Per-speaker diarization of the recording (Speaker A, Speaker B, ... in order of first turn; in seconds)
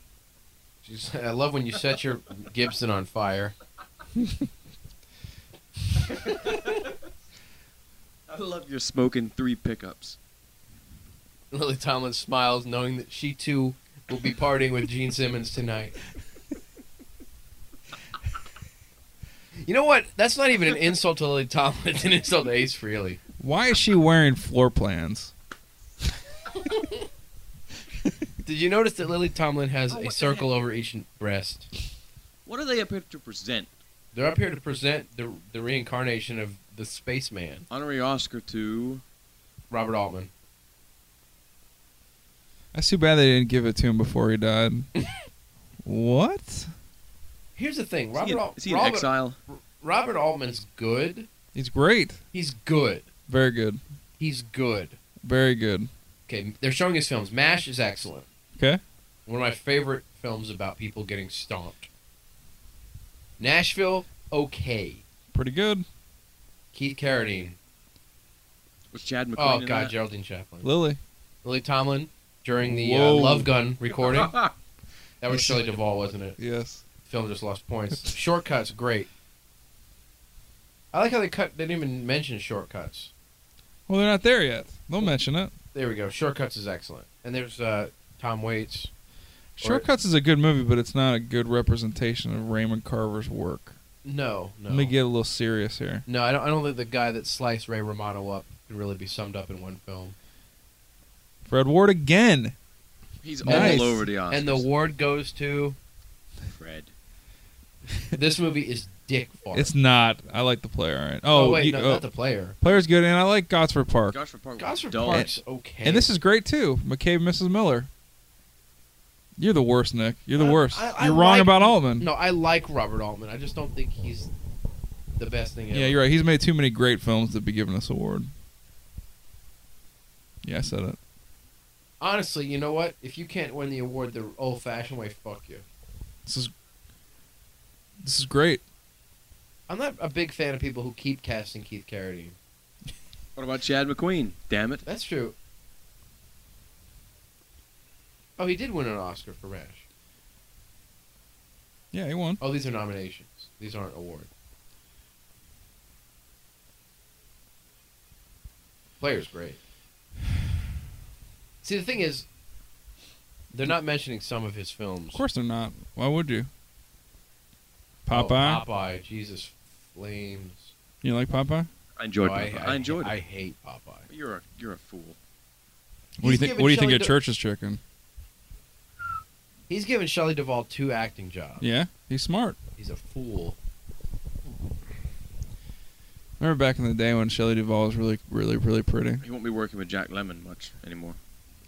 Speaker A: 0.8-3.5, 11.5-15.9, 19.6-23.2, 26.7-27.0, 28.4-31.7, 34.1-37.6, 39.7-40.3, 47.5-51.3, 52.3-53.0, 54.2-55.0, 56.3-58.3, 59.2-61.9, 63.4-65.0, 66.7-67.6, 69.4-70.7, 71.4-74.3, 75.2-76.4, 77.0-79.1, 80.9-83.1, 85.7-88.9, 94.0-94.9, 96.0-100.2, 103.5-105.8, 108.1-109.7, 111.3-112.6, 114.6-116.1, 120.3-124.3, 125.2-126.0, 132.0-135.6, 139.7-142.4, 144.8-145.3, 148.4-149.8, 152.4-154.3, 159.0-159.6, 161.6-162.3, 163.5-165.2, 168.1-170.7, 172.2-174.1, 176.2-177.2, 179.7-181.6, 182.8-183.6
Speaker B: 6.2-6.9, 8.3-10.2, 29.9-30.5, 32.5-33.7, 37.7-39.0, 48.1-49.4, 68.9-69.9, 74.0-74.5, 103.2-104.7, 106.5-106.9, 114.1-115.3, 143.3-144.8, 172.0-173.2, 174.1-175.2, 189.2-191.2
Speaker C: 23.4-25.3, 42.7-44.9, 45.8-46.7, 51.5-52.2, 53.3-53.8, 55.2-55.9, 65.3-65.8, 70.6-71.0, 72.6-73.5, 75.3-75.6, 76.4-76.8, 83.9-85.5, 89.6-93.8, 94.7-96.0, 101.4-102.5, 103.4-104.0, 109.5-112.0, 112.6-114.2, 115.8-117.9, 119.4-122.1, 125.7-128.3, 130.4-131.0, 136.2-136.5, 138.0-138.6, 151.9-152.4, 165.1-166.5, 168.0-168.6, 171.0-171.7, 176.2-177.8, 181.6-182.6, 186.4-189.2